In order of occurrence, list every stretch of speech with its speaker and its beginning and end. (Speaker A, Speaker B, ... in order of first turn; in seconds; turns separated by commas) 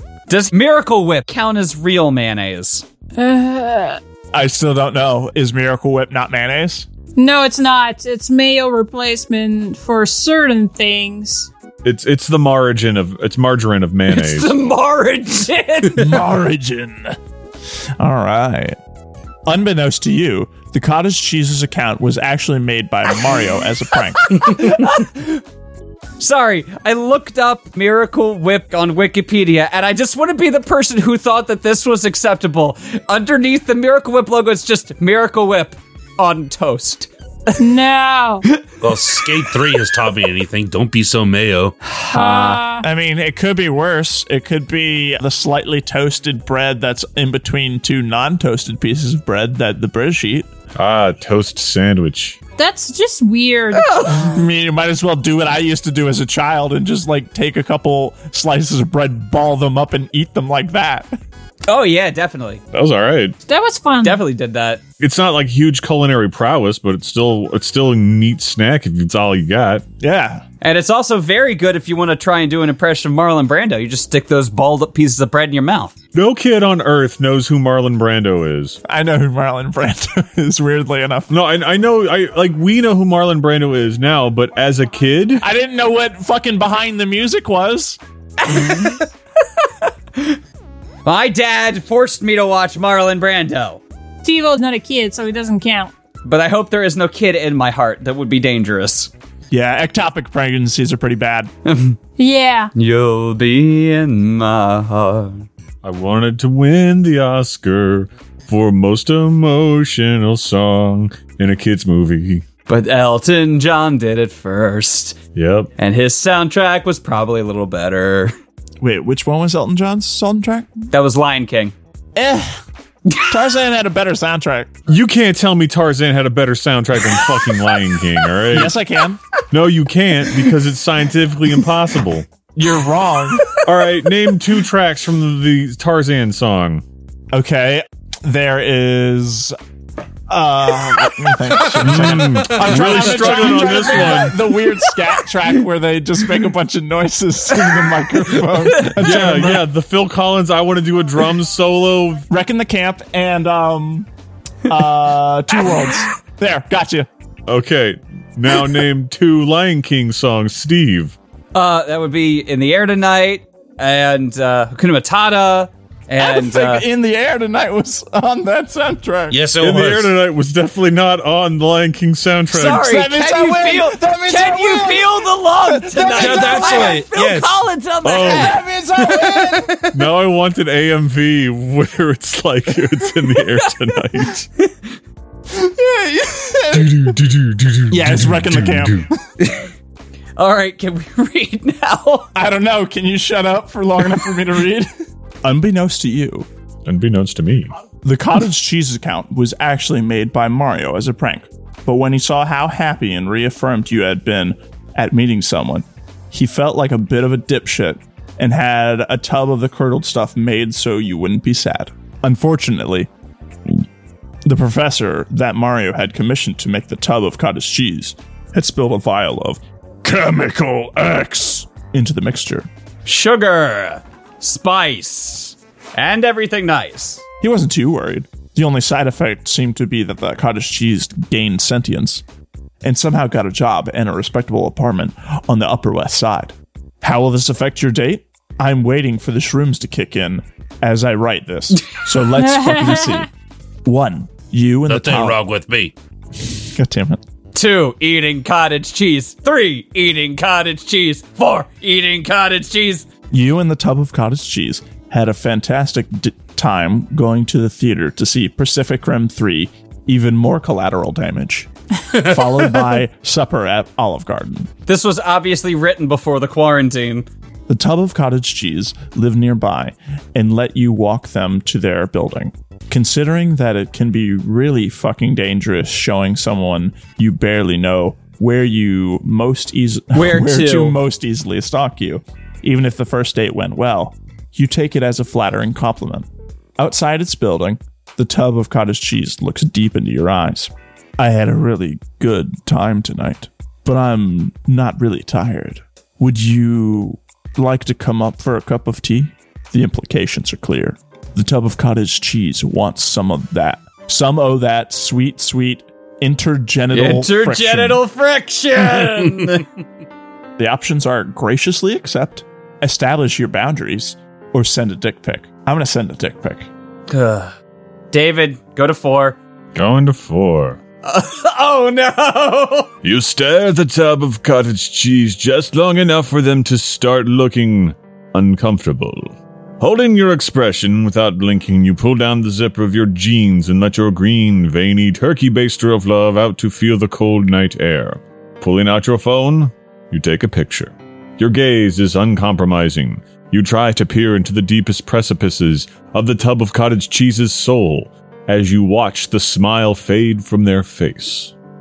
Speaker A: 0.3-2.9, Speaker B: 3.2-4.0, Speaker C: 4.3-6.9, Speaker B: 7.2-11.5, Speaker D: 11.8-14.5, Speaker A: 14.1-16.2, Speaker C: 15.9-17.2, Speaker C: 18.0-18.8, Speaker C: 19.5-24.7, Speaker A: 24.2-25.4, Speaker A: 26.2-37.5, Speaker B: 37.6-38.5, Speaker A: 38.5-39.7, Speaker E: 38.8-41.8, Speaker A: 41.9-42.6, Speaker B: 42.1-42.9, Speaker C: 42.8-50.5, Speaker D: 50.8-52.4, Speaker B: 52.6-54.2, Speaker A: 53.7-54.4, Speaker C: 54.1-61.2, Speaker A: 61.7-62.6, Speaker D: 62.7-63.4, Speaker B: 63.5-64.2, Speaker A: 64.0-64.8, Speaker D: 65.0-69.8, Speaker C: 70.0-70.4, Speaker A: 70.6-75.9, Speaker D: 76.1-78.8, Speaker C: 78.8-81.3, Speaker D: 81.3-85.5, Speaker C: 85.4-88.0, Speaker A: 88.4-89.1, Speaker A: 91.0-93.8, Speaker B: 94.2-95.9, Speaker A: 96.2-99.1, Speaker C: 99.5-101.5, Speaker A: 101.7-102.0, Speaker B: 102.2-102.7, Speaker A: 102.8-105.5, Speaker D: 105.8-112.5, Speaker A: 112.7-115.2, Speaker D: 115.3-115.7, Speaker A: 115.8-118.3, Speaker C: 118.8-120.7, Speaker A: 120.9-121.8, Speaker C: 122.2-122.6, Speaker C: 123.3-124.8, Speaker D: 124.9-128.8, Speaker C: 128.5-129.2, Speaker D: 129.5-132.3, Speaker C: 132.6-133.6, Speaker D: 133.6-136.8, Speaker C: 137.3-139.6, Speaker C: 140.3-149.7, Speaker D: 141.7-144.4, Speaker A: 143.4-144.3, Speaker A: 148.5-149.2, Speaker D: 148.9-152.2, Speaker C: 152.3-154.1, Speaker C: 154.7-157.1, Speaker D: 157.5-161.2, Speaker A: 161.5-166.9, Speaker C: 166.2-169.4, Speaker E: 169.3-170.1, Speaker D: 169.6-172.9, Speaker A: 172.5-179.6, Speaker C: 172.8-177.0, Speaker E: 176.1-177.6, Speaker D: 178.0-178.6, Speaker C: 178.1-179.8, Speaker D: 179.9-184.5, Speaker C: 185.5-187.2, Speaker D: 186.7-189.1, Speaker C: 187.9-189.2, Speaker A: 189.4-189.7, Speaker A: 190.4-192.3, Speaker C: 192.3-194.9, Speaker C: 195.4-196.5, Speaker D: 196.9-197.7, Speaker C: 198.0-213.1, Speaker C: 214.4-222.7, Speaker A: 223.1-227.2, Speaker C: 227.4-232.2, Speaker C: 232.8-243.3, Speaker B: 242.4-243.2, Speaker C: 243.8-245.4, Speaker E: 244.9-245.9, Speaker C: 246.4-247.2, Speaker A: 247.5-253.1, Speaker C: 253.3-264.7, Speaker A: 264.9-267.3, Speaker C: 267.7-286.3, Speaker A: 280.1-281.0, Speaker C: 286.8-308.0, Speaker A: 306.9-309.7, Speaker C: 310.6-316.7, Speaker A: 317.1-317.5, Speaker A: 318.1-319.4, Speaker D: 319.8-320.8, Speaker A: 321.1-322.9, Speaker D: 323.0-351.5